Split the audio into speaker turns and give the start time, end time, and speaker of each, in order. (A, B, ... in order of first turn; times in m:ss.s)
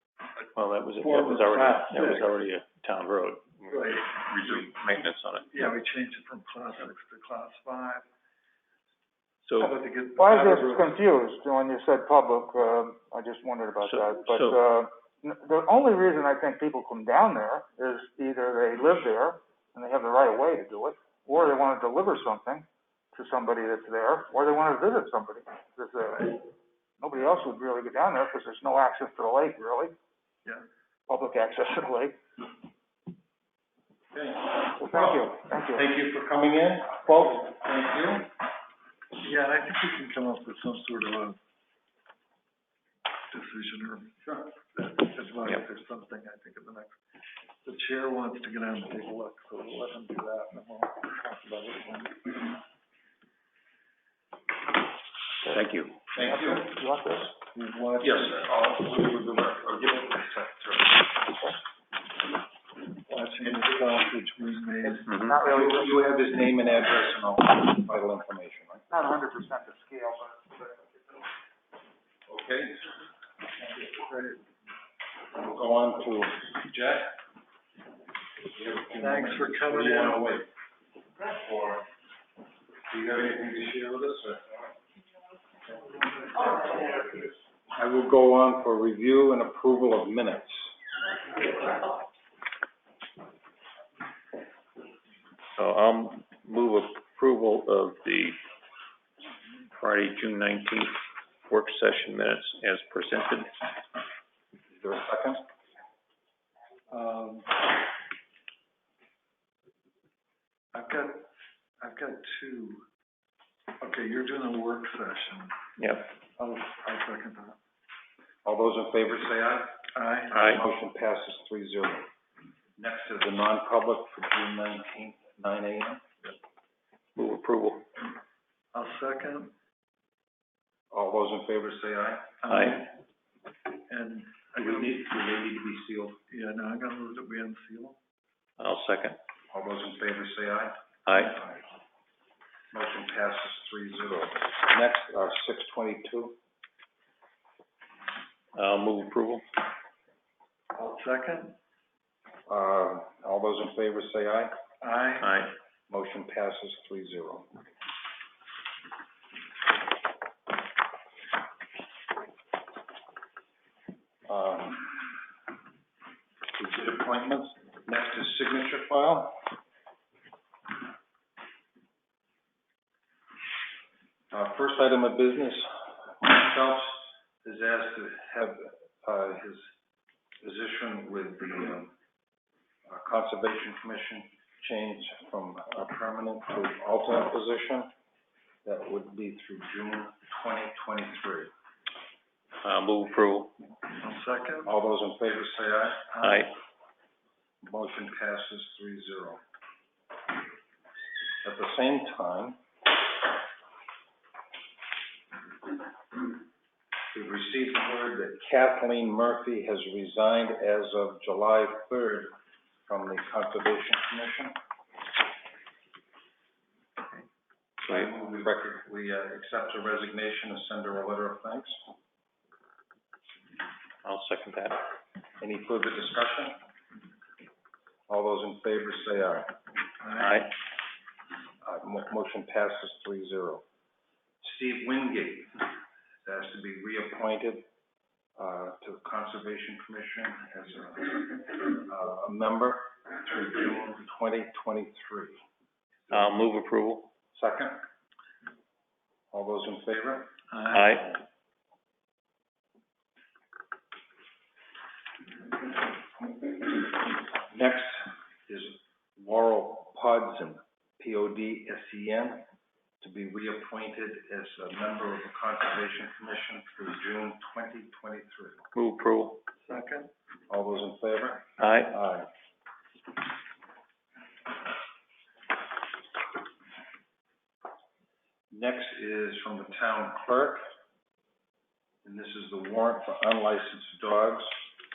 0:00.5-0:05.5 A
0:00.9-0:02.3 B
0:03.7-0:04.7 B
0:05.5-0:08.0 B
0:09.4-0:09.8 A
0:09.6-0:11.0 B
0:10.2-0:26.5 C
0:13.9-0:14.6 A
0:27.0-0:29.9 C
0:31.1-0:32.2 C
0:34.1-0:38.3 D
0:34.8-0:35.9 C
0:39.2-0:41.4 B
0:43.3-0:47.0 B
0:47.6-0:52.5 B
0:55.4-0:56.0 A
0:56.1-0:56.7 D
0:56.2-0:57.3 C
0:57.5-0:58.5 B
0:58.0-1:01.3 D
1:03.1-1:05.1 B
1:04.8-1:05.9 C
1:05.1-1:05.4 A
1:05.3-1:08.9 D
1:08.9-1:11.0 C
1:12.3-1:12.9 D
1:13.8-1:14.4 B
1:15.3-1:17.1 D
1:18.5-1:20.5 D
1:19.0-1:20.2 B
1:21.2-1:21.8 D
1:22.9-1:24.7 D
1:27.7-1:30.6 D
1:35.6-1:38.4 A
1:39.7-1:43.5 A
1:44.7-1:45.4 D
1:46.9-1:47.5 B
1:50.7-1:51.2 B
1:51.8-1:52.8 B
1:53.8-1:55.6 B
1:55.8-1:56.1 A
1:56.4-1:57.6 B
1:58.4-1:59.7 D
1:59.9-2:00.3 B
2:00.3-2:02.1 D
2:00.3-2:00.6 A
2:02.8-2:06.0 D
2:07.2-2:07.8 A
2:08.7-2:09.5 B
2:10.9-2:12.4 D
2:12.4-2:13.0 B
2:12.5-2:12.8 A
2:13.9-2:15.0 B
2:14.6-2:16.2 D
2:16.3-2:18.0 B
2:18.6-2:19.2 A
2:19.5-2:20.8 D
2:21.0-2:21.4 A
2:22.7-2:26.4 D
2:28.5-2:29.4 A
2:30.7-2:31.6 B
2:32.5-2:34.5 D
2:34.8-2:35.5 B
2:35.2-2:35.5 A
2:35.9-2:37.5 D
2:44.3-2:45.0 D
2:46.5-2:49.4 D
2:54.3-2:59.7 D
3:00.4-3:01.9 D
3:02.9-3:07.9 D
3:08.6-3:11.5 D
3:12.6-3:13.5 A
3:13.9-3:14.7 B
3:14.6-3:16.1 D
3:16.1-3:16.5 B
3:16.2-3:16.5 A
3:17.6-3:19.4 D
3:21.4-3:22.6 D
3:27.1-3:32.3 D
3:32.9-3:34.6 D
3:37.8-3:41.8 D
3:44.0-3:44.8 A
3:45.4-3:46.6 D
3:48.1-3:49.5 D
3:50.0-3:50.4 B
3:50.2-3:50.5 A
3:51.6-3:53.6 D
3:54.4-3:57.6 D
3:58.4-4:05.4 D
4:06.1-4:07.1 A
4:07.3-4:07.8 D
4:09.3-4:10.3 D
4:10.5-4:11.2 B
4:10.7-4:11.2 A
4:17.5-4:22.4 D
4:23.0-4:28.7 D
4:28.7-4:29.4 A
4:29.6-4:30.1 B
4:30.5-4:32.3 D
4:31.6-4:32.0 A
4:38.5-4:40.6 D
4:42.0-4:44.6 D